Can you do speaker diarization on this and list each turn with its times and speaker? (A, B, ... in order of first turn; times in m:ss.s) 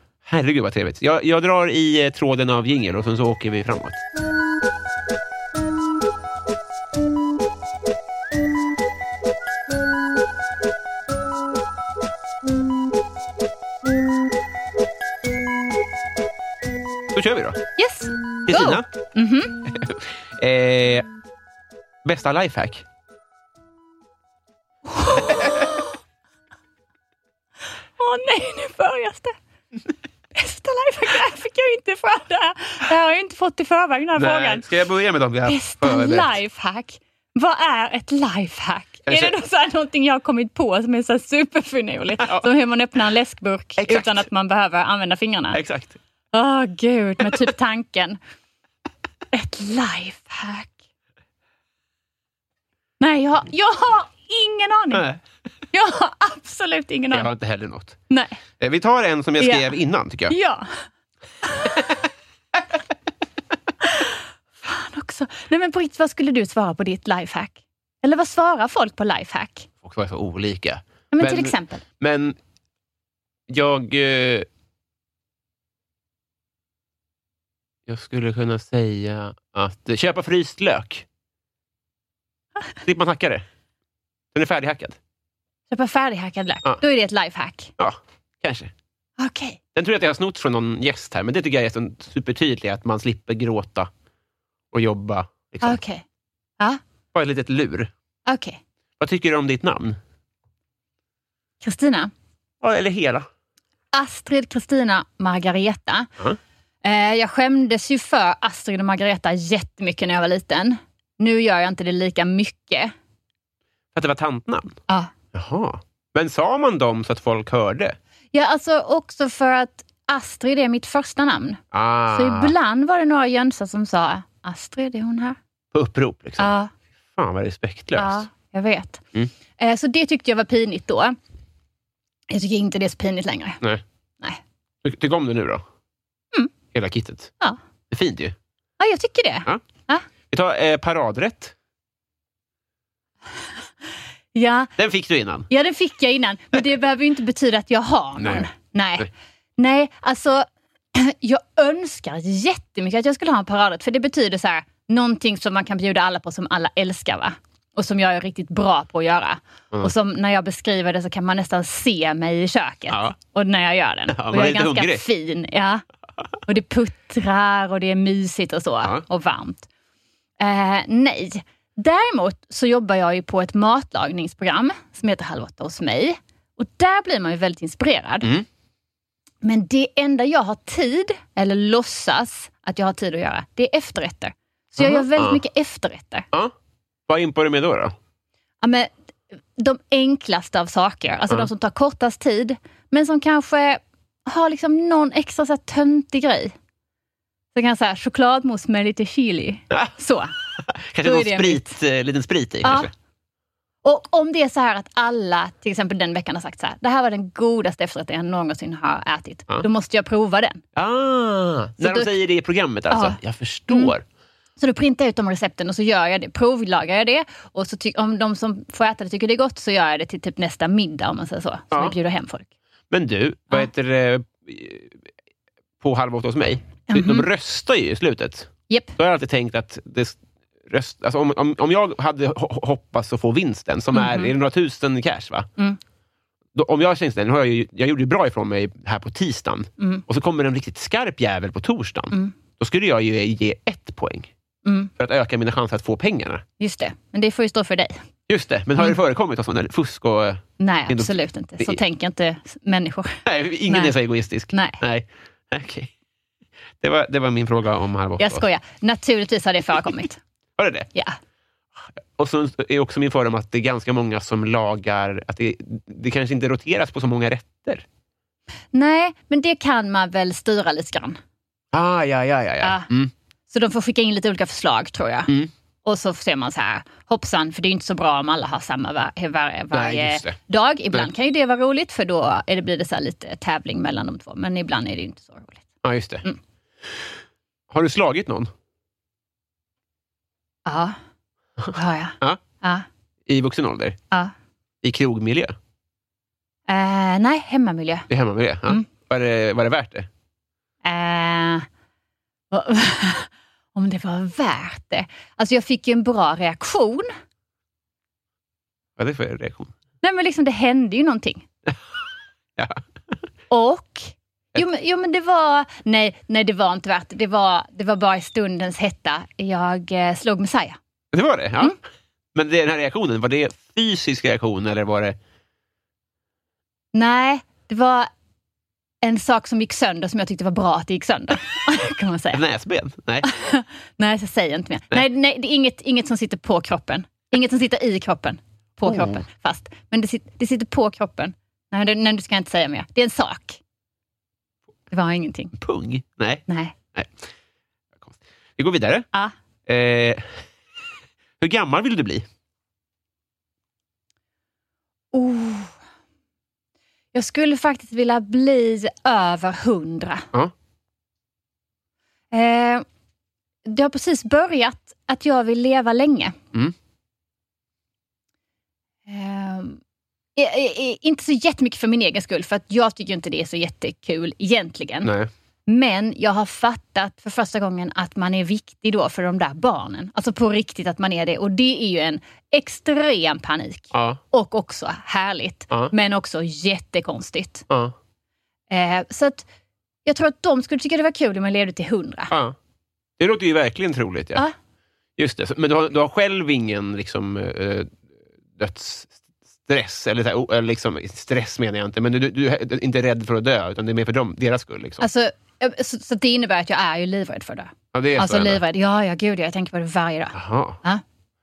0:00.2-0:04.0 A
0:17.1-0:17.6 A
0:17.8-0:19.5 B
0:18.5-0:18.8 A
0:19.7-0:21.0 A
0:22.0-0:22.8 A
0:24.9-0:25.8 B
0:28.0-0:29.3 B
0:30.3-0:34.6 B
0:34.2-0:36.4 A
0:35.4-0:45.6 B
0:39.1-0:39.3 A
0:43.8-0:44.2 A
0:45.5-0:46.0 A
0:46.3-0:48.2 B
0:49.3-0:50.7 B
0:53.0-0:55.0 B
0:54.9-0:55.2 A
0:55.7-0:57.3 B
0:57.1-0:58.0 A
0:58.1-0:58.4 B
0:58.6-1:00.3 A
0:59.4-0:59.7 B
1:00.3-1:00.8 B
1:01.4-1:01.7 B
1:03.8-1:09.7 B
1:09.8-1:12.4 A
1:11.1-1:11.8 B
1:13.5-1:14.5 A
1:17.9-1:21.0 A
1:22.8-1:23.4 A
1:24.3-1:25.0 A
1:25.7-1:27.7 B
1:27.8-1:28.7 A
1:29.2-1:29.6 B
1:29.7-1:33.9 A
1:34.7-1:35.8 A
1:35.6-1:36.0 B
1:37.1-1:37.9 A
1:38.3-1:38.6 B
1:39.0-1:40.0 A
1:41.6-1:42.1 B
1:42.6-1:43.3 A
1:43.9-1:46.1 B
1:46.8-1:52.9 B
1:53.9-1:54.8 A
1:55.3-1:58.0 A
1:58.3-2:05.4 B
2:01.7-2:02.5 A
2:05.7-2:06.5 A
2:06.4-2:06.7 B
2:07.2-2:08.3 A
2:08.0-2:09.0 B
2:09.6-2:11.2 B
2:12.3-2:13.6 B
2:14.8-2:15.6 A
2:16.7-2:17.3 A
2:17.9-2:18.3 A
2:18.8-2:20.0 B
2:20.3-2:21.5 A
2:24.3-2:24.7 B
2:24.8-2:25.5 A
2:25.5-2:45.8 B
2:28.2-2:28.5 A
2:42.9-2:43.1 A
2:44.1-2:45.0 A
2:46.4-2:49.7 B
2:50.4-2:58.3 B
2:59.4-3:06.2 B
3:04.8-3:05.4 A
3:07.1-3:07.9 A
3:08.6-3:08.9 B
3:09.6-3:16.5 B
3:17.5-3:20.3 B
3:20.6-3:22.9 A
3:21.0-3:21.8 B
3:22.6-3:22.9 B
3:23.8-3:30.6 B
3:30.7-3:34.0 A
3:31.8-3:32.1 B
3:32.9-3:33.2 B
3:34.6-3:42.4 B
3:42.9-3:45.0 A
3:45.8-3:50.2 A
3:46.9-3:47.2 B
3:50.7-3:55.5 A
3:53.9-3:54.3 B
3:56.5-4:04.3 A
3:59.8-4:00.0 B
4:04.6-4:04.9 B
4:05.0-4:06.4 A
4:06.6-4:08.0 B
4:08.3-4:11.8 A
4:10.6-4:13.9 B
4:13.2-4:15.9 A
4:14.5-4:14.8 B
4:16.8-4:18.4 A
4:18.2-4:20.2 B
4:20.6-4:20.9 A
4:22.2-4:27.8 A
4:28.7-4:31.2 B
4:31.7-4:33.1 A
4:32.6-4:32.9 B
4:33.5-4:35.3 B
4:35.8-4:45.6 B
4:39.7-4:40.4 A
4:45.8-4:46.2 A
4:47.7-4:48.5 A
4:50.6-4:51.0 B
4:51.6-4:52.4 A
4:51.7-4:52.8 B
4:53.3-4:54.0 A
4:54.8-4:55.6 A
4:56.7-4:58.1 B
4:58.1-5:00.1 A
5:00.8-5:01.6 B
5:02.5-5:07.1 B
5:09.0-5:09.7 A
5:10.0-5:11.4 B
5:13.5-5:20.8 B
5:21.1-5:21.8 A
5:22.3-5:25.2 A
5:26.9-5:28.1 B
5:29.0-5:32.4 B
5:32.3-5:33.3 A
5:33.2-5:43.6 B
5:38.8-5:39.2 A
5:44.9-5:45.5 B
5:45.6-5:47.2 A
5:46.5-5:46.7 B
5:48.0-5:49.1 A
5:49.7-5:50.4 A
5:51.4-5:52.2 A
5:55.1-5:55.7 B
5:57.1-6:00.2 B
6:02.3-6:02.8 B
6:03.6-6:06.3 B
6:09.1-6:09.8 B
6:10.4-6:15.1 B
6:15.0-6:15.3 A
6:15.7-6:27.6 B
6:23.9-6:24.2 A
6:28.7-6:29.4 B
6:30.0-6:32.3 B
6:32.3-6:32.5 A
6:33.2-6:34.4 A
6:35.2-6:37.9 A
6:38.6-6:45.0 A
6:45.0-6:51.0 B
6:47.9-6:48.6 A
6:50.3-6:50.8 A